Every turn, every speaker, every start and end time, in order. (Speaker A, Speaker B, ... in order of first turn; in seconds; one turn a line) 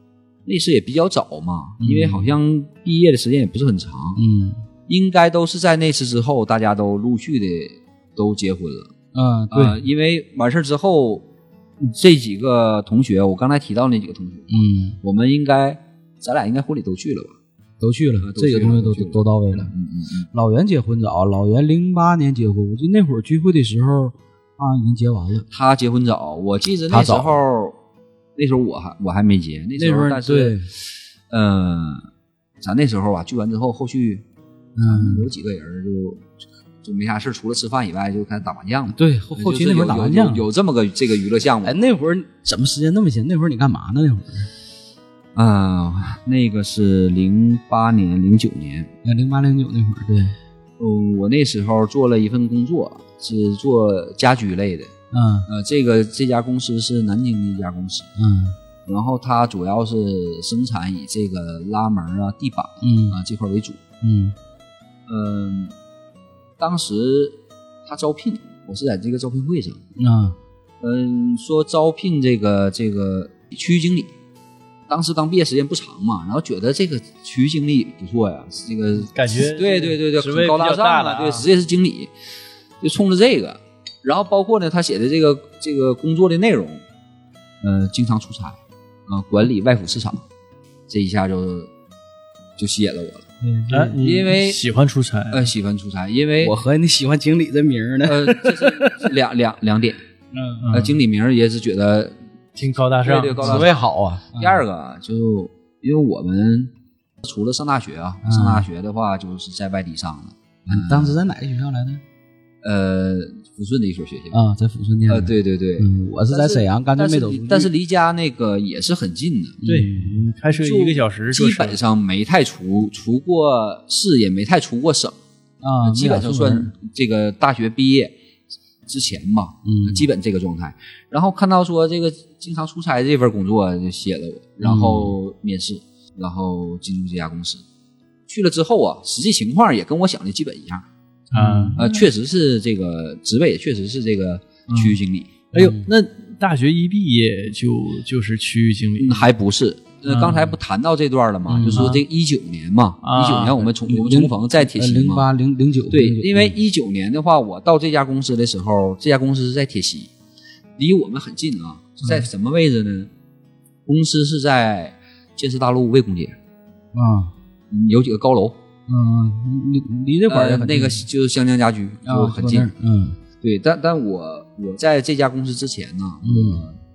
Speaker A: 0.5-4.2
Speaker B: 1.8-2.4
Speaker B: 4.2-4.6
Speaker A: 4.9-8.9
Speaker B: 9.1-9.8
Speaker A: 9.5-11.3
Speaker A: 11.8-17.4
Speaker B: 14.5-15.0
Speaker B: 17.8-19.7
Speaker A: 18.2-20.3
Speaker B: 20.3-25.5
Speaker A: 25.5-27.8
Speaker B: 26.9-27.4
Speaker A: 28.4-32.1
Speaker B: 29.8-30.7
Speaker A: 32.6-34.2
Speaker B: 34.8-35.3
Speaker A: 34.8-36.3
Speaker A: 36.8-41.8
Speaker B: 38.9-40.4
Speaker B: 41.6-44.5
Speaker A: 45.4-48.9
Speaker B: 49.0-50.4
Speaker A: 50.8-54.9
Speaker B: 55.1-55.5
Speaker A: 55.5-58.1
Speaker B: 58.2-58.6
Speaker A: 58.9-63.8
Speaker B: 62.8-63.2
Speaker B: 64.0-64.3
Speaker A: 65.1-65.8
Speaker A: 66.6-69.8
Speaker B: 70.0-70.4
Speaker A: 70.8-74.1
Speaker A: 74.9-82.1
Speaker C: 79.1-81.5
Speaker A: 82.8-86.8
Speaker A: 87.6-90.2
Speaker A: 90.9-91.7
Speaker A: 92.6-93.2
Speaker B: 93.4-94.0
Speaker C: 93.7-95.5
Speaker A: 94.0-94.6
Speaker A: 95.3-96.6
Speaker B: 96.4-99.1
Speaker A: 98.0-100.0
Speaker B: 100.3-100.8
Speaker C: 100.6-101.0
Speaker A: 100.7-102.2
Speaker C: 102.6-103.7
Speaker A: 103.0-103.8
Speaker B: 103.4-104.6
Speaker A: 104.3-111.2
Speaker B: 108.2-108.7
Speaker B: 110.7-112.0
Speaker A: 112.6-114.4
Speaker B: 114.3-117.7
Speaker A: 115.1-119.6
Speaker B: 119.6-120.3
Speaker C: 119.7-121.8
Speaker A: 120.5-125.2
Speaker B: 125.6-126.7
Speaker A: 125.8-128.2
Speaker A: 128.9-137.6
Speaker B: 129.7-130.1
Speaker B: 134.6-135.2
Speaker A: 138.3-140.9
Speaker C: 141.3-142.0
Speaker B: 141.3-141.8
Speaker A: 141.8-145.5
Speaker C: 144.7-145.0
Speaker C: 145.5-149.3
Speaker B: 145.5-145.9
Speaker A: 149.0-155.3
Speaker C: 150.1-150.6
Speaker B: 151.5-152.0
Speaker C: 151.7-152.0
Speaker C: 153.0-153.7
Speaker B: 153.8-156.6
Speaker A: 155.9-160.1
Speaker A: 160.8-163.1
Speaker A: 163.9-166.4
Speaker B: 166.9-167.3
Speaker A: 167.7-168.6
Speaker B: 168.9-171.1
Speaker A: 170.3-172.7
Speaker B: 172.1-173.2
Speaker A: 173.4-176.8
Speaker B: 176.2-176.7